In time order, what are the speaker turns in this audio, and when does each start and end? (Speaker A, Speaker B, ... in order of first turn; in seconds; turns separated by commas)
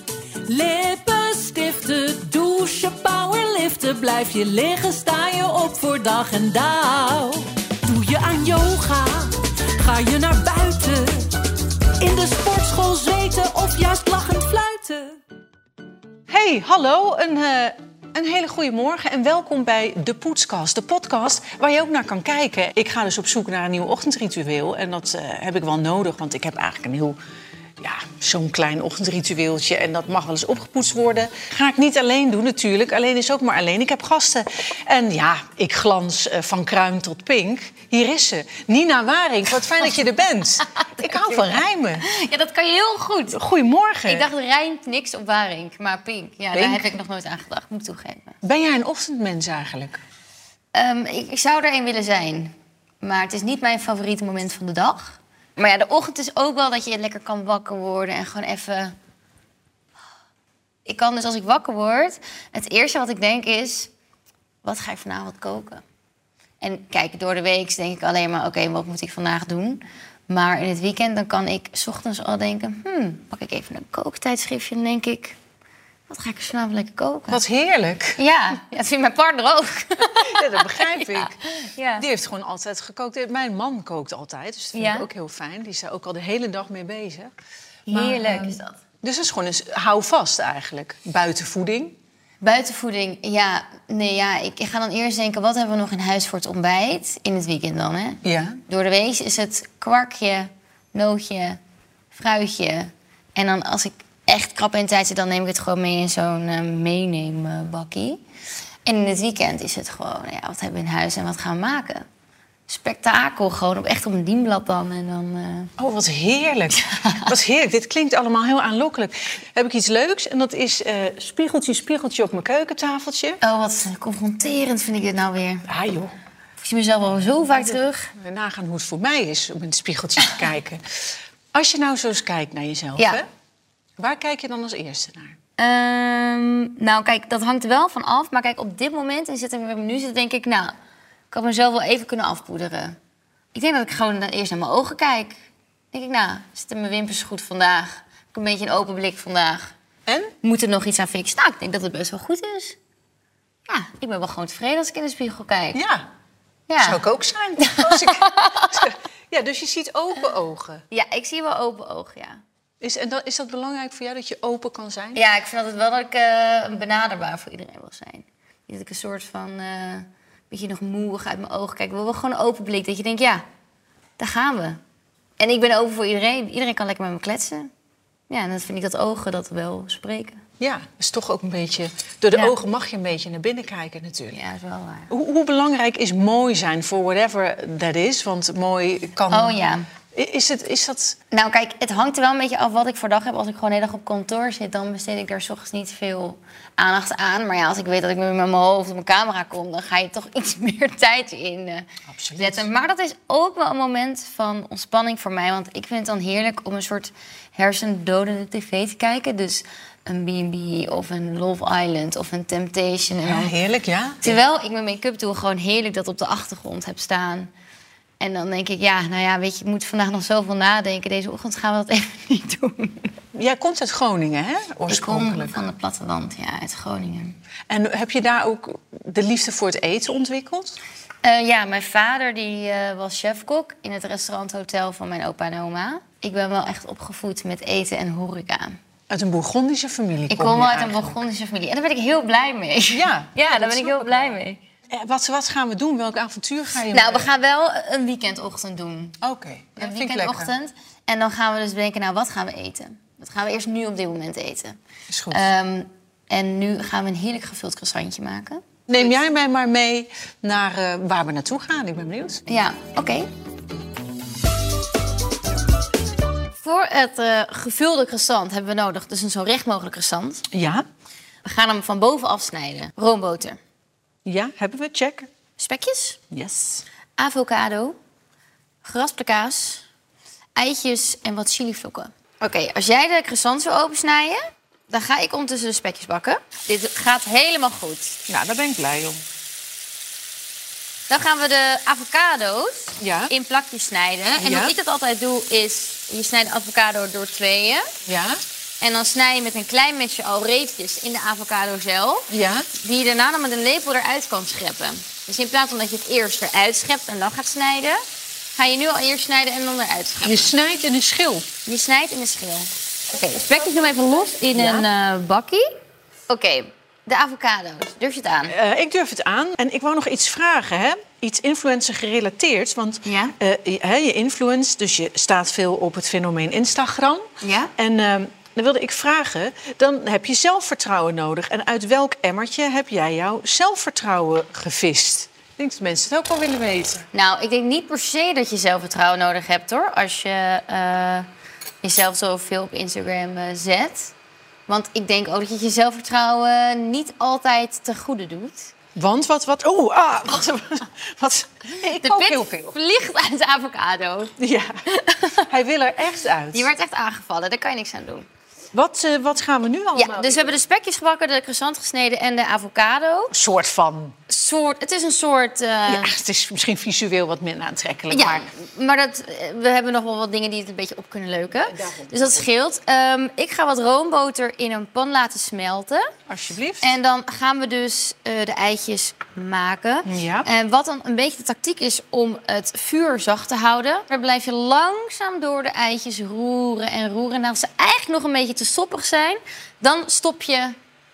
Speaker A: 0.5-11.3, Speaker A: 12.0-15.2, Speaker B: 16.3-27.2, Speaker B: 27.8-42.0, Speaker C: 40.7-43.4, Speaker B: 43.3-44.3, Speaker C: 44.1-48.4, Speaker B: 46.5-46.9, Speaker B: 48.4-50.0, Speaker C: 50.7-58.9, Speaker C: 60.8-63.9, Speaker C: 64.6-65.8, Speaker C: 66.6-75.4, Speaker C: 76.1-77.4, Speaker B: 77.3-78.2, Speaker C: 78.2-82.0, Speaker B: 80.1-81.4, Speaker B: 81.9-87.3, Speaker C: 84.7-85.0, Speaker B: 87.9-92.0, Speaker C: 87.9-88.8, Speaker C: 92.4-101.6, Speaker B: 98.2-98.6, Speaker C: 102.1-108.2, Speaker C: 108.8-112.0, Speaker C: 112.7-115.7, Speaker B: 115.8-123.4, Speaker C: 116.8-117.3, Speaker C: 123.4-125.7, Speaker B: 125.7-126.1, Speaker C: 126.6-128.1, Speaker B: 127.5-130.8, Speaker B: 131.5-133.3, Speaker B: 134.0-135.3, Speaker C: 135.6-140.7, Speaker C: 141.3-142.9, Speaker C: 143.5-145.4, Speaker C: 145.9-149.7, Speaker B: 150.1-150.3, Speaker C: 150.4-152.8, Speaker C: 153.7-155.8, Speaker B: 155.7-156.1, Speaker C: 156.7-157.0, Speaker B: 156.8-160.8, Speaker C: 157.6-158.8, Speaker C: 160.9-162.4, Speaker B: 162.8-165.2, Speaker C: 165.1-173.4, Speaker C: 174.2-174.8, Speaker C: 175.4-177.7, Speaker C: 178.3-180.4, Speaker B: 180.6-184.4, Speaker C: 184.3-185.1, Speaker B: 185.1-189.6, Speaker C: 189.3-189.8, Speaker B: 190.1-191.2, Speaker C: 191.3-201.8, Speaker B: 202.1-202.7, Speaker C: 202.4-213.5, Speaker B: 213.2-214.4, Speaker C: 214.2-217.5, Speaker C: 218.2-223.1, Speaker B: 223.3-225.6, Speaker C: 224.9-227.4, Speaker B: 227.7-230.8, Speaker C: 231.2-238.8, Speaker B: 239.1-241.2, Speaker C: 240.3-244.6, Speaker B: 242.9-244.3, Speaker B: 244.9-247.3, Speaker C: 246.9-249.2, Speaker B: 249.2-250.5, Speaker C: 249.8-254.8, Speaker B: 255.1-255.4, Speaker C: 255.3-259.1, Speaker B: 258.9-262.4, Speaker C: 262.5-263.3, Speaker C: 266.6-270.5, Speaker B: 270.5-270.8, Speaker C: 271.4-273.6, Speaker B: 274.2-275.3, Speaker C: 275.6-276.2, Speaker B: 276.3-276.8, Speaker C: 277.1-277.9, Speaker C: 278.8-279.8, Speaker C: 280.5-288.2, Speaker B: 288.3-289.2, Speaker C: 291.1-297.9, Speaker B: 293.0-293.3, Speaker B: 294.4-294.7, Speaker B: 298.0-298.4, Speaker C: 298.8-308.0, Speaker B: 302.3-302.7, Speaker C: 308.5-310.5, Speaker B: 310.2-311.5, Speaker C: 311.6-315.6, Speaker B: 314.5-314.9, Speaker C: 316.3-318.5, Speaker B: 318.5-337.1, Speaker C: 323.0-323.3, Speaker C: 327.4-327.7, Speaker C: 337.1-341.3, Speaker C: 341.8-344.1, Speaker C: 344.7-348.7, Speaker B: 348.9-352.7, Speaker C: 351.9-354.3, Speaker B: 354.4-354.8, Speaker C: 354.9-355.4, Speaker B: 355.4-356.7, Speaker C: 356.5-358.2, Speaker B: 358.7-360.6, Speaker C: 359.9-363.3, Speaker B: 363.3-364.1, Speaker C: 364.3-366.1, Speaker B: 365.9-368.5, Speaker C: 368.1-376.1, Speaker B: 371.7-372.4, Speaker B: 376.3-376.9, Speaker C: 376.8-390.8, Speaker B: 380.1-380.5